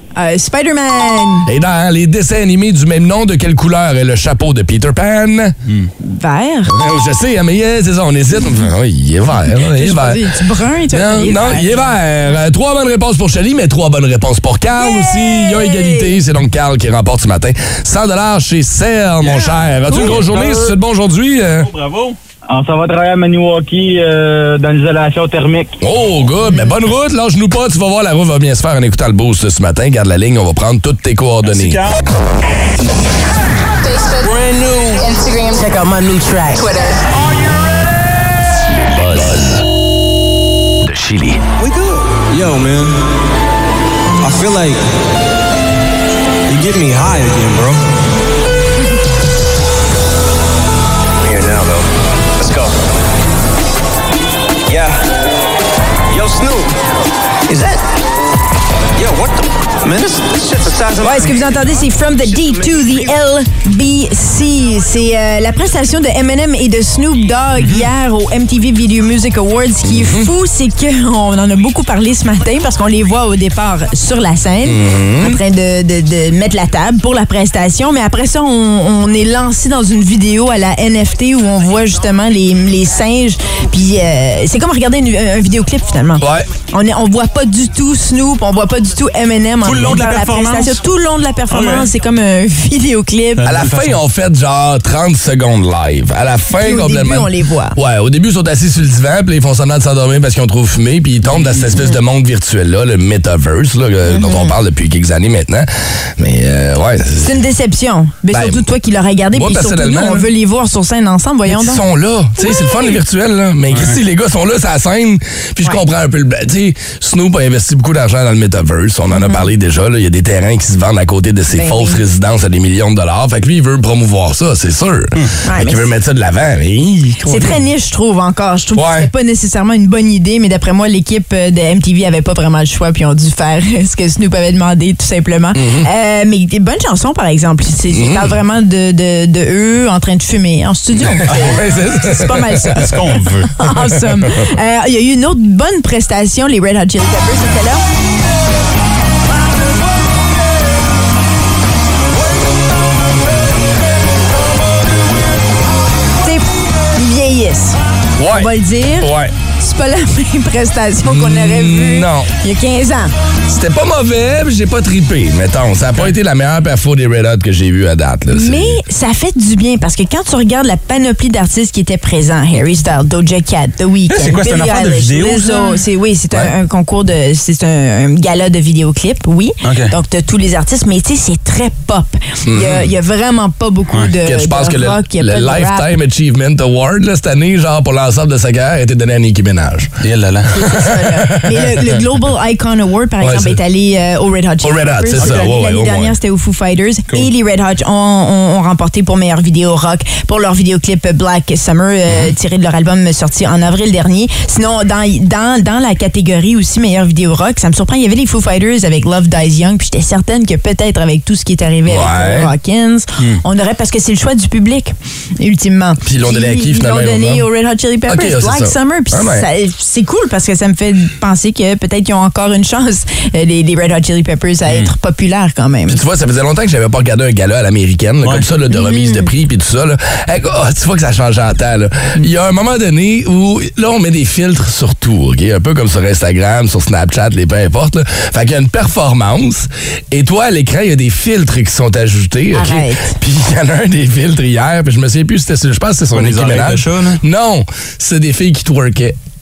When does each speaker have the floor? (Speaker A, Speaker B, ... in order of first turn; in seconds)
Speaker A: 0.1-1.5, 6.0-6.7, 9.6-11.9, 14.8-16.2, 61.0-93.5, 96.6-97.8, 104.0-104.6, 107.2-111.8, 112.4-112.9, 119.1-119.5, 121.5-122.0, 125.4-125.9, 127.2-147.8, 156.2-163.1, 168.3-185.9, 190.5-226.0, 228.7-229.3, 242.5-243.1
Speaker B: 1.4-5.5, 6.7-10.2, 10.9-21.7, 25.8-31.8, 38.9-39.6, 40.9-41.4, 69.8-70.3, 74.6-75.4, 86.2-86.5, 93.4-107.4, 108.3-108.7, 109.3-110.3, 111.5-127.6, 128.7-129.1, 135.5-135.9, 137.9-138.3, 141.0-142.8, 143.8-144.4, 158.2-159.3, 161.0-162.3, 163.5-168.8, 182.4-182.9, 184.2-189.9, 190.6-192.0, 193.2-193.6, 194.6-196.2, 211.8-212.5, 216.0-217.5, 218.1-219.5, 225.9-249.2
Speaker C: 19.2-20.4, 21.6-22.2, 31.4-32.0, 89.6-90.8, 91.5-91.9, 93.4-94.0, 113.7-114.0, 142.7-143.5, 174.1-175.8, 179.6-179.9, 190.0-190.5, 195.2-195.5, 246.1-247.2
Speaker D: 22.5-25.8
Speaker E: 33.8-34.3, 35.0-37.0
Speaker F: 34.2-35.1, 41.6-43.0, 44.2-44.9, 46.5-47.9, 51.2-51.9, 52.4-52.7, 54.7-55.0, 56.1-56.7, 59.0-61.3